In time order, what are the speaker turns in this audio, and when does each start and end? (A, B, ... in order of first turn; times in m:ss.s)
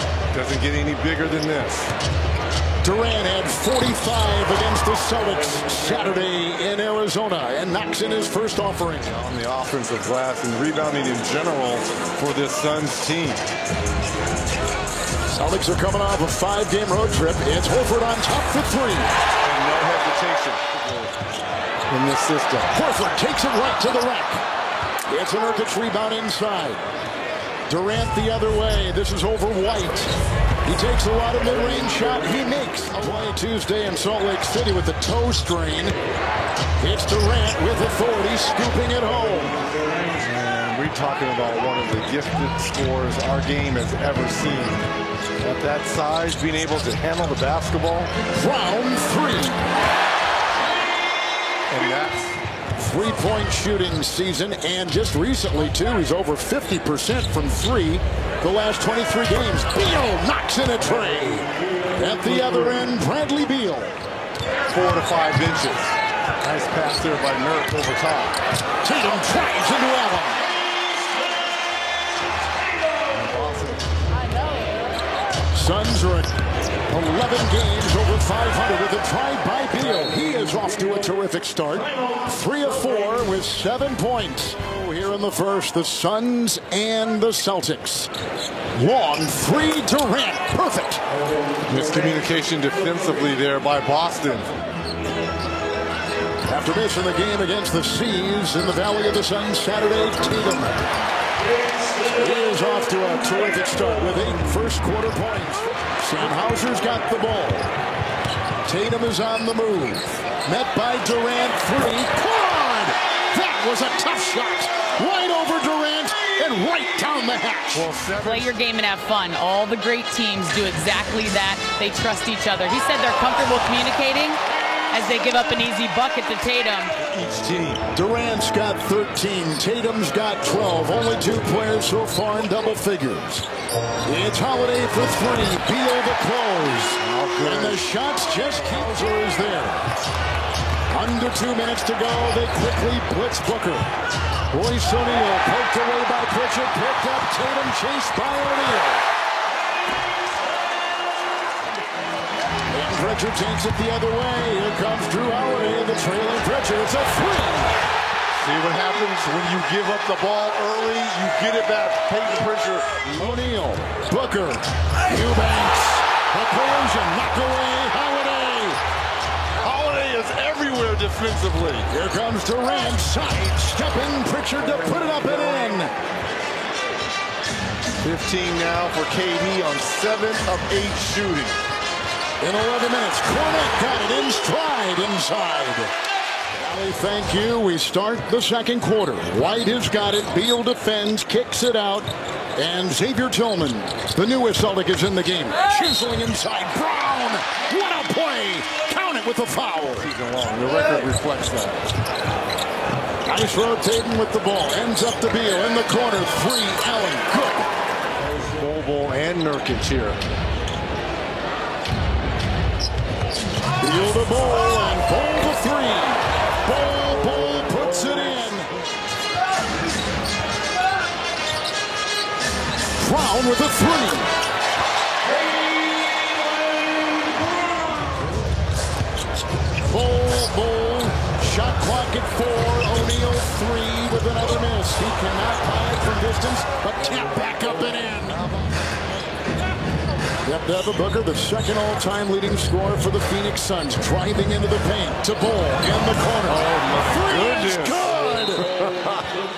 0:00.3-0:01.9 A
0:02.8-0:09.1 B
0:09.1-0:13.4 A
0:15.3-0:19.1 B
0:19.4-0:21.1 A
0:21.9-0:22.7 A
0:22.7-0:24.4 B
0:25.1-0:26.8 B
0:27.7-0:30.1 B
0:30.6-0:36.0 B
0:36.8-0:39.6 B
0:40.2-0:44.9 A
0:45.4-0:48.1 A
0:48.3-0:49.6 B
0:51.7-0:52.3 A
0:52.8-1:04.0 B
1:04.7-1:08.4 A
1:08.8-1:10.4 B
1:13.3-1:13.8 A
1:15.5-1:16.3 B
1:16.9-1:28.1 B
1:28.8-1:31.0 B
1:31.7-1:34.6 A
1:36.5-1:40.8 B
1:42.0-1:47.7 B
1:48.6-1:57.9 B
1:57.7-1:58.5 A
1:58.2-2:04.4 C
2:04.9-2:06.9 C
2:07.0-2:07.8 A
2:07.9-2:13.5 B
2:14.1-2:19.8 B
2:17.0-2:17.8 A
2:20.9-2:23.9 B
2:24.5-2:29.1 B
2:32.7-2:37.7 B
2:38.4-2:43.4 A
2:43.2-2:48.8 B
2:49.6-2:51.9 A
2:51.9-2:55.9 B
2:58.0-3:01.6 A
3:02.4-3:05.9 B
3:06.5-3:20.1 B
3:20.0-3:21.8 A
3:23.2-3:27.7 B
3:28.4-3:30.2 A
3:33.8-3:38.7 B
3:43.0-3:44.3 B
3:49.8-3:58.5 B
4:00.4-4:08.7 B
4:06.5-4:09.3 A